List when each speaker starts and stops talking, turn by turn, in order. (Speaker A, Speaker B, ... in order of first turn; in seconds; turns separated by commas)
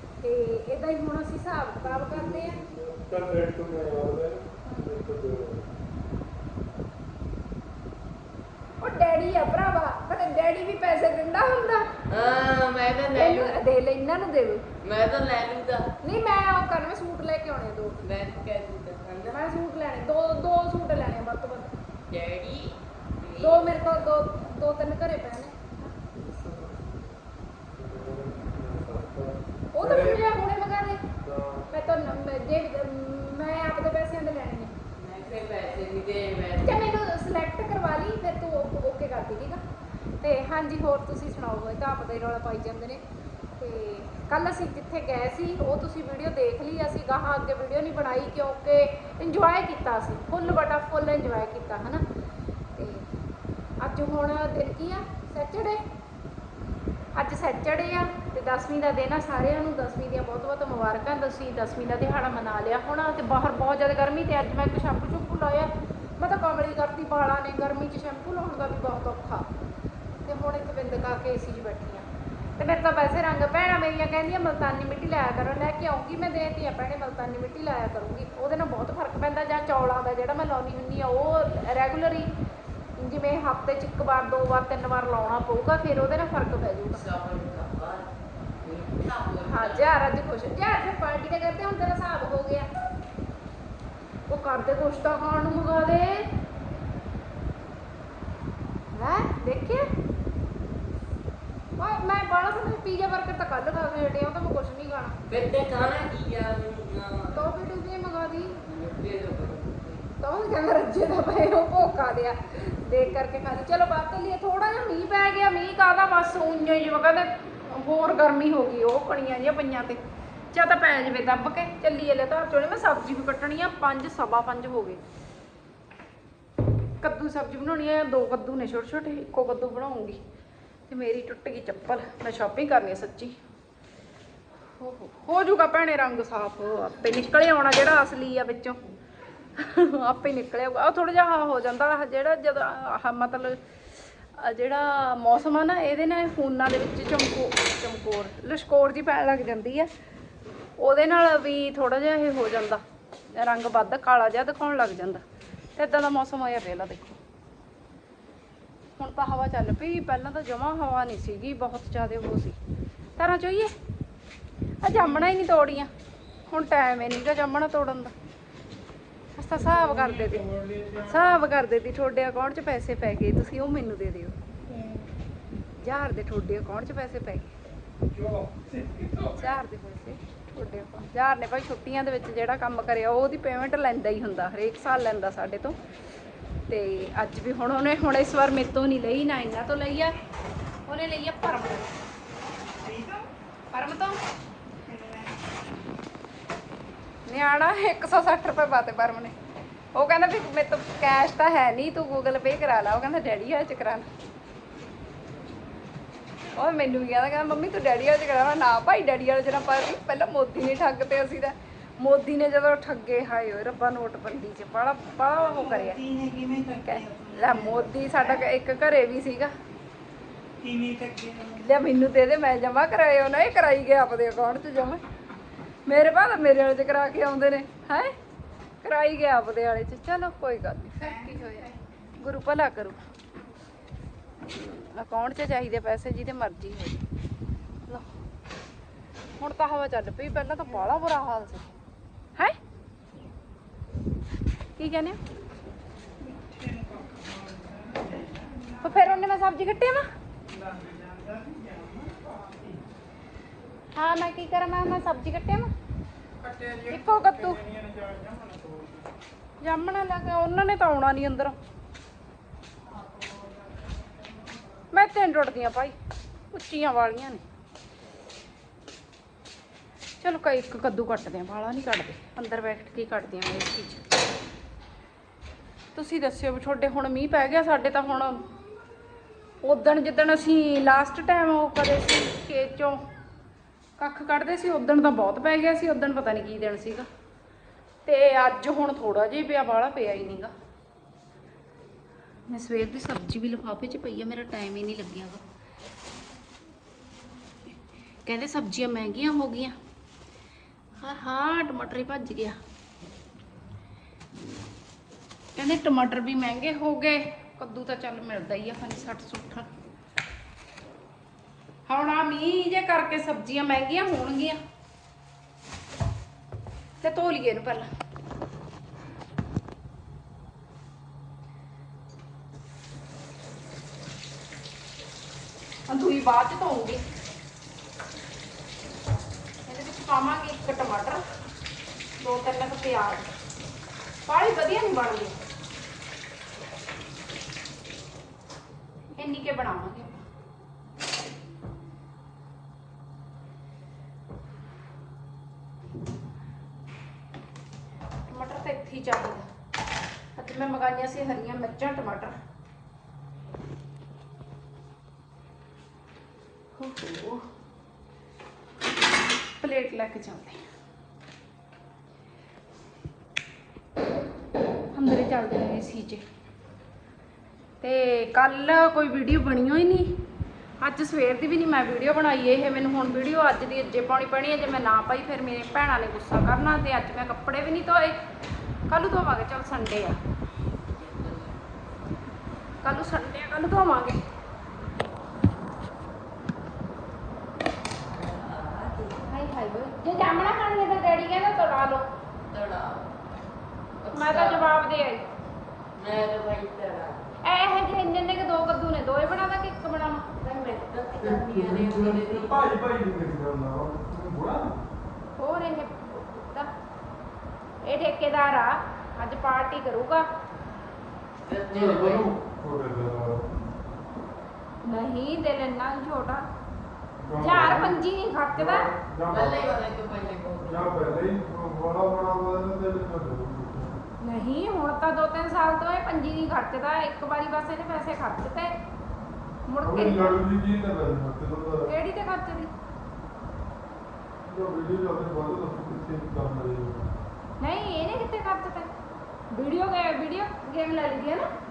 Speaker A: 0.2-2.6, Speaker B: 1.8-5.7, Speaker A: 4.6-4.9, Speaker A: 8.8-11.9, Speaker C: 12.1-13.6, Speaker A: 13.1-14.6, Speaker C: 14.8-15.9, Speaker A: 16.0-18.0, Speaker C: 18.0-19.4, Speaker A: 19.3-21.7, Speaker C: 22.1-23.9, Speaker A: 23.4-25.6, Speaker C: 26.2-26.8, Speaker B: 27.8-30.2, Speaker A: 29.7-31.0, Speaker B: 31.2-31.6, Speaker A: 31.7-34.7, Speaker C: 35.0-36.8, Speaker A: 36.6-39.6, Speaker A: 40.2-43.0, Speaker A: 43.6-52.0, Speaker A: 52.8-53.1, Speaker A: 53.8-55.8, Speaker A: 57.1-69.5, Speaker A: 70.2-72.1, Speaker A: 72.6-82.3, Speaker A: 83.0-87.0, Speaker C: 86.9-88.1, Speaker C: 88.6-89.9, Speaker A: 89.5-92.7, Speaker A: 94.3-96.3, Speaker A: 98.9-99.8, Speaker A: 101.8-105.2, Speaker C: 105.3-107.5, Speaker A: 107.3-108.6, Speaker C: 108.6-110.1, Speaker A: 110.2-125.0, Speaker A: 127.0-130.2, Speaker A: 130.9-133.3, Speaker A: 134.8-138.8, Speaker A: 139.6-143.6, Speaker A: 144.3-149.9, Speaker A: 150.8-152.8, Speaker A: 153.3-155.2, Speaker A: 155.8-157.2, Speaker A: 159.0-162.6, Speaker A: 163.2-163.7, Speaker A: 164.8-165.9, Speaker A: 166.5-168.1, Speaker A: 169.4-174.3, Speaker D: 170.5-171.0, Speaker D: 174.7-175.1, Speaker A: 175.8-177.5, Speaker D: 178.2-179.2, Speaker A: 179.2-185.8, Speaker A: 186.7-190.1, Speaker A: 190.9-191.9, Speaker D: 192.8-193.2, Speaker A: 193.7-194.2, Speaker D: 194.9-195.4, Speaker A: 197.2-199.3, Speaker A: 199.9-204.1, Speaker A: 206.5-216.0, Speaker D: 215.8-217.8, Speaker A: 216.8-219.5, Speaker D: 220.6-221.5, Speaker A: 221.5-225.0, Speaker A: 225.8-228.1, Speaker A: 228.8-233.0, Speaker A: 234.5-237.0, Speaker A: 239.4-241.7, Speaker A: 244.8-245.2, Speaker D: 246.2-248.8, Speaker A: 248.8-250.0, Speaker D: 250.5-252.8, Speaker A: 253.9-255.7, Speaker D: 256.4-259.1, Speaker A: 256.9-257.6, Speaker A: 259.6-261.6, Speaker D: 262.9-263.6, Speaker A: 264.9-265.9, Speaker A: 266.5-267.4, Speaker A: 270.2-274.0, Speaker A: 275.9-278.4, Speaker A: 279.6-283.0, Speaker A: 284.0-287.1, Speaker A: 288.0-290.5, Speaker A: 292.5-295.4, Speaker A: 298.2-299.8, Speaker A: 301.0-302.6, Speaker A: 305.5-309.7, Speaker A: 311.9-314.6, Speaker A: 317.0-317.9, Speaker A: 325.9-327.0, Speaker A: 329.6-331.2, Speaker A: 332.2-333.3, Speaker A: 334.2-335.4, Speaker A: 339.2-340.2, Speaker A: 348.3-349.5, Speaker A: 350.4-352.4, Speaker A: 356.8-357.5, Speaker A: 359.6-360.6, Speaker A: 364.9-366.2, Speaker A: 367.8-370.1, Speaker A: 370.8-378.2, Speaker A: 378.9-380.2, Speaker C: 380.9-381.6, Speaker A: 382.8-384.2, Speaker C: 388.1-389.2, Speaker A: 389.2-392.1, Speaker C: 392.5-393.1, Speaker C: 394.0-394.6, Speaker A: 394.1-395.2, Speaker C: 396.0-397.2, Speaker A: 397.4-400.2, Speaker C: 400.4-402.6, Speaker B: 401.2-404.8, Speaker A: 405.4-406.7, Speaker A: 407.8-410.2, Speaker C: 411.4-412.3, Speaker B: 411.7-413.5, Speaker A: 414.8-416.4, Speaker B: 417.2-419.8, Speaker A: 417.4-418.9, Speaker C: 419.2-421.1, Speaker B: 420.6-424.0, Speaker A: 424.2-428.7, Speaker A: 429.7-430.4, Speaker B: 429.8-431.9, Speaker A: 431.9-432.7, Speaker B: 434.5-437.1, Speaker A: 437.6-438.9, Speaker A: 439.5-441.5